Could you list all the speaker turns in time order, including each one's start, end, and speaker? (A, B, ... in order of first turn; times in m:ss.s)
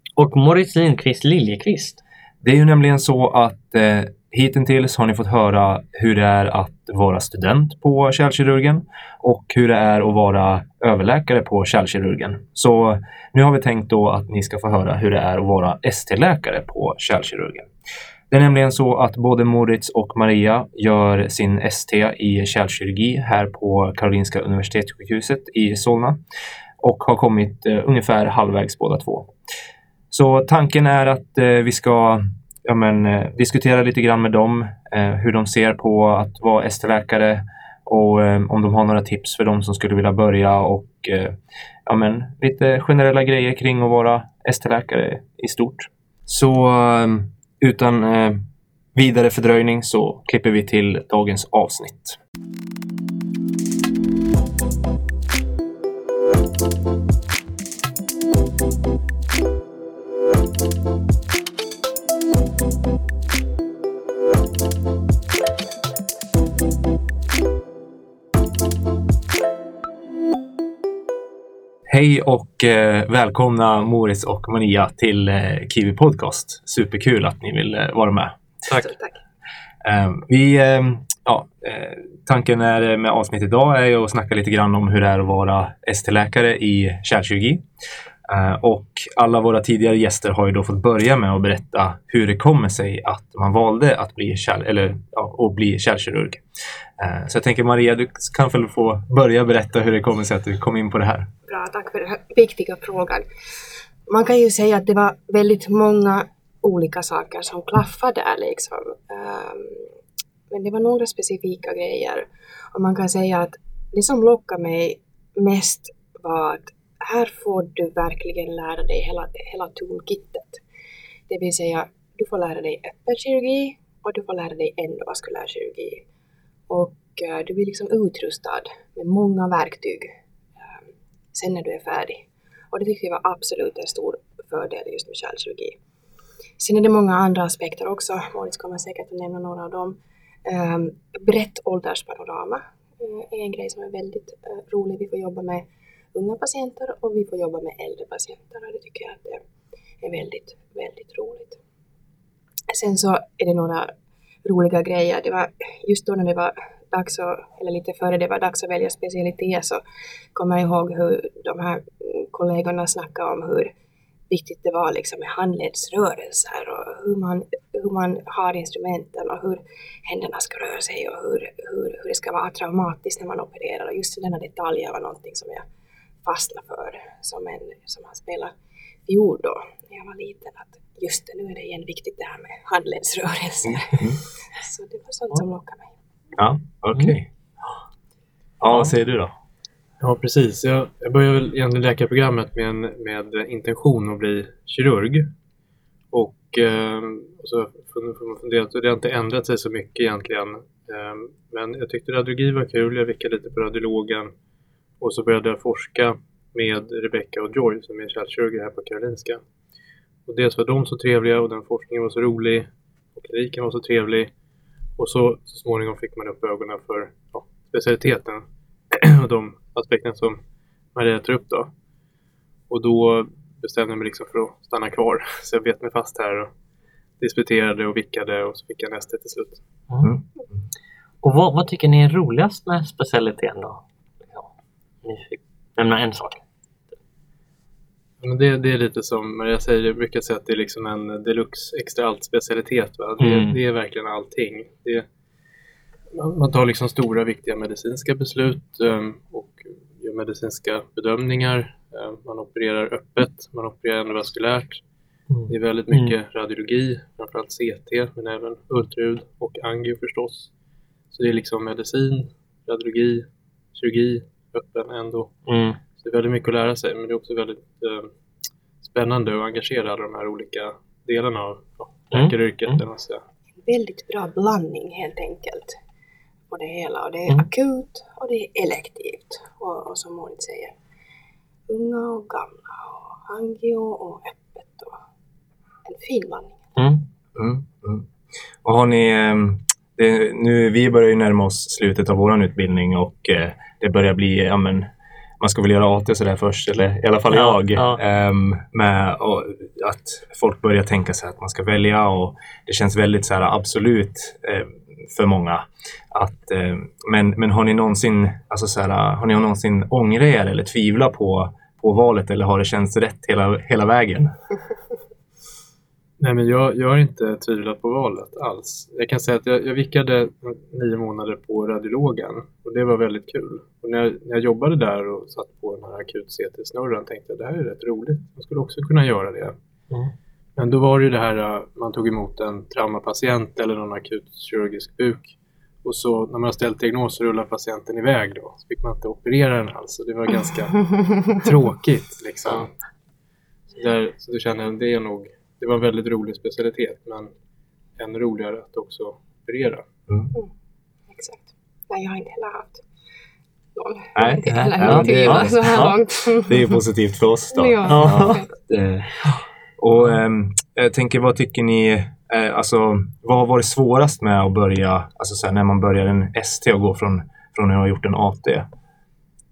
0:00.2-0:02.0 A
0:02.4-0:17.7 B
0:18.3-0:26.2 B
0:26.8-0:29.3 B
0:30.1-0:48.4 B
0:48.9-0:52.2 B
1:11.9-1:18.4 B
1:18.8-1:19.1 C
1:19.8-1:27.6 B
1:28.3-1:36.4 B
1:37.0-1:41.3 B
1:41.5-1:43.2 C
1:44.1-1:49.9 C
1:50.5-2:00.6 C
2:01.3-2:06.0 C
2:06.7-2:10.8 C
2:11.3-2:15.8 C
2:16.6-2:29.4 C
2:30.0-2:31.6 C
2:32.7-2:33.9 C
2:34.4-2:39.8 C
2:40.3-2:43.7 C
2:44.3-2:55.6 C
2:56.2-2:58.5 C
2:59.1-3:05.9 C
3:06.4-3:07.3 B
3:08.6-3:09.3 B
3:10.0-3:15.3 D
3:16.1-3:24.3 D
3:25.0-3:29.4 D
3:30.3-3:34.3 D
3:35.0-3:40.4 D
3:40.9-3:41.7 D
3:42.7-3:46.5 D
3:47.2-3:49.6 D
3:51.2-3:54.5 A
3:55.0-3:56.4 A
3:58.2-4:05.0 D
4:03.2-4:03.6 A
4:06.1-4:14.8 D
4:15.3-4:16.1 A
4:15.5-4:20.5 D
4:21.1-4:25.3 D
4:25.5-4:25.8 A
4:26.0-4:28.1 D
4:28.8-4:33.2 D
4:32.1-4:32.8 A
4:33.6-4:35.7 C
4:36.5-4:40.7 C
4:41.7-4:45.0 C
4:45.8-4:46.6 C
4:46.8-4:47.0 A
4:47.4-4:48.1 B
4:48.6-4:54.9 B
4:55.4-5:14.3 B
4:57.3-4:58.0 A
5:16.2-5:29.6 D
5:30.6-5:42.7 D
5:43.7-5:47.3 D
5:48.0-5:49.8 D
5:50.1-5:50.3 B
5:51.1-5:52.8 C
5:53.8-5:56.8 C
5:54.1-5:59.2 B
5:54.4-5:56.0 A
5:57.5-5:58.5 C
5:57.8-5:58.4 A
5:59.8-6:08.7 B